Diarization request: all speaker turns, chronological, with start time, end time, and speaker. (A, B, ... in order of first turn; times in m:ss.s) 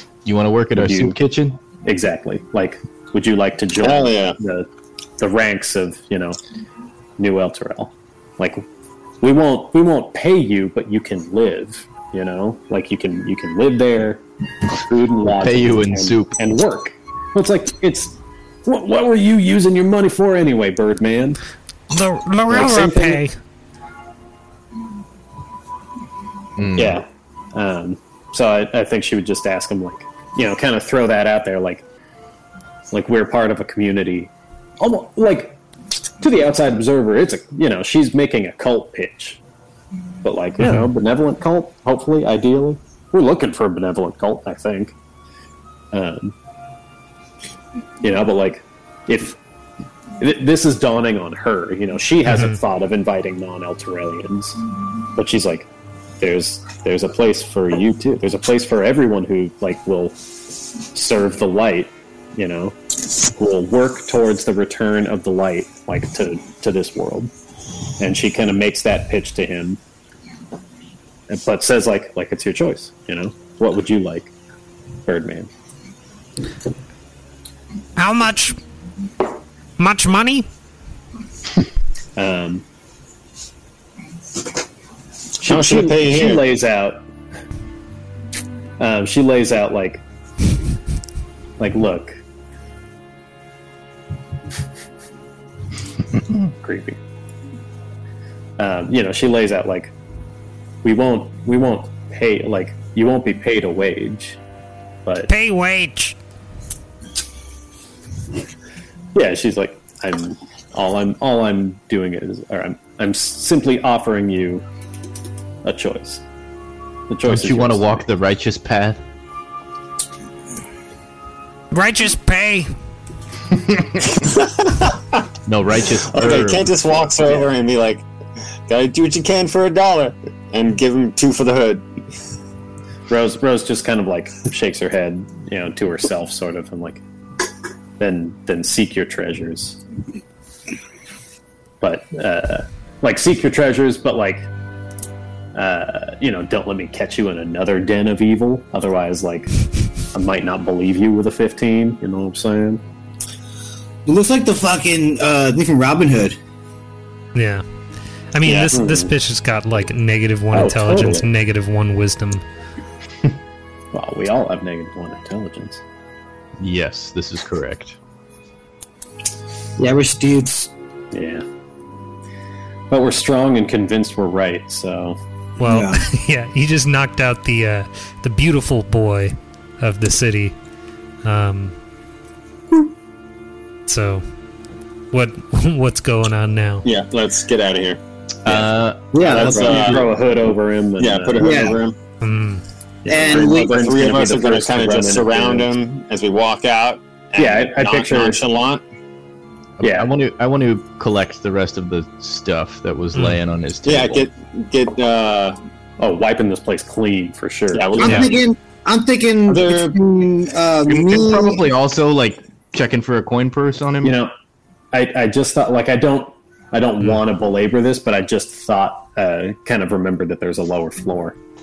0:00.2-0:01.6 A
0:00.7-0:01.2 B
0:01.8-0:04.7 B
0:03.8-0:04.4 C
0:05.2-0:06.4 B
0:07.2-0:08.6 B
0:09.2-0:21.4 B
0:15.2-0:16.4 A
0:21.9-0:23.3 D
0:22.5-0:23.2 B
0:26.6-0:27.0 A
0:26.8-0:31.8 B
0:32.9-0:39.4 B
0:40.2-0:44.9 B
0:40.6-0:40.9 D
0:45.9-0:46.3 B
0:48.0-0:49.4 B
0:50.2-0:54.6 B
0:52.2-0:52.6 D
0:55.1-0:55.7 B
0:56.2-1:00.2 B
1:00.8-1:07.3 B
1:08.0-1:09.8 B
1:11.3-1:14.3 B
1:15.0-1:15.5 B
1:18.0-1:18.6 D
1:19.8-1:20.5 D
1:22.2-1:22.6 B
1:25.4-1:27.0 B
1:25.4-1:26.4 C
1:28.8-1:30.0 B
1:31.6-1:32.2 B
1:36.6-1:37.0 B
1:38.6-1:39.9 B
1:40.8-1:44.4 B
1:45.3-1:46.2 D
1:49.1-1:54.6 B
1:55.6-1:56.2 B
1:57.1-1:58.0 B
1:57.2-1:59.0 A
2:01.7-2:02.7 D
2:04.2-2:05.2 C
2:05.4-2:06.7 A
2:05.9-2:08.0 C
2:08.7-2:11.8 C
2:13.1-2:17.0 B
2:18.0-2:19.8 B
2:21.8-2:24.4 B
2:25.5-2:29.6 B
2:30.1-2:32.8 B
2:34.0-2:36.4 E
2:37.3-2:37.6 D
2:38.3-2:42.4 D
2:38.4-2:38.7 C
2:38.7-2:39.1 B
2:40.5-2:41.3 B
2:43.9-2:45.8 B
2:46.6-2:48.0 A
2:49.8-2:50.7 E
2:51.1-2:51.4 B
2:52.9-2:55.2 B
2:55.6-3:00.6 D
2:55.6-2:56.0 E
3:01.2-3:01.7 D
3:03.9-3:04.2 D
3:05.1-3:06.8 D
3:06.8-3:08.6 C
3:08.4-3:10.0 A
3:09.1-3:09.9 E
3:09.2-3:10.1 C
3:09.3-3:11.8 B
3:11.0-3:12.0 C
3:11.4-3:11.8 E
3:12.2-3:12.6 D
3:13.0-3:15.7 B
3:13.1-3:13.9 E
3:13.2-3:18.8 C
3:17.4-3:18.4 B
3:19.8-3:24.3 A
3:19.8-3:20.1 B
3:23.1-3:23.4 D
3:23.8-3:25.6 C
3:26.0-3:28.1 B
3:27.7-3:28.4 C
3:28.0-3:31.6 E
3:29.5-3:30.0 C
3:30.9-3:34.2 A
3:34.0-3:34.3 B
3:34.9-3:41.4 B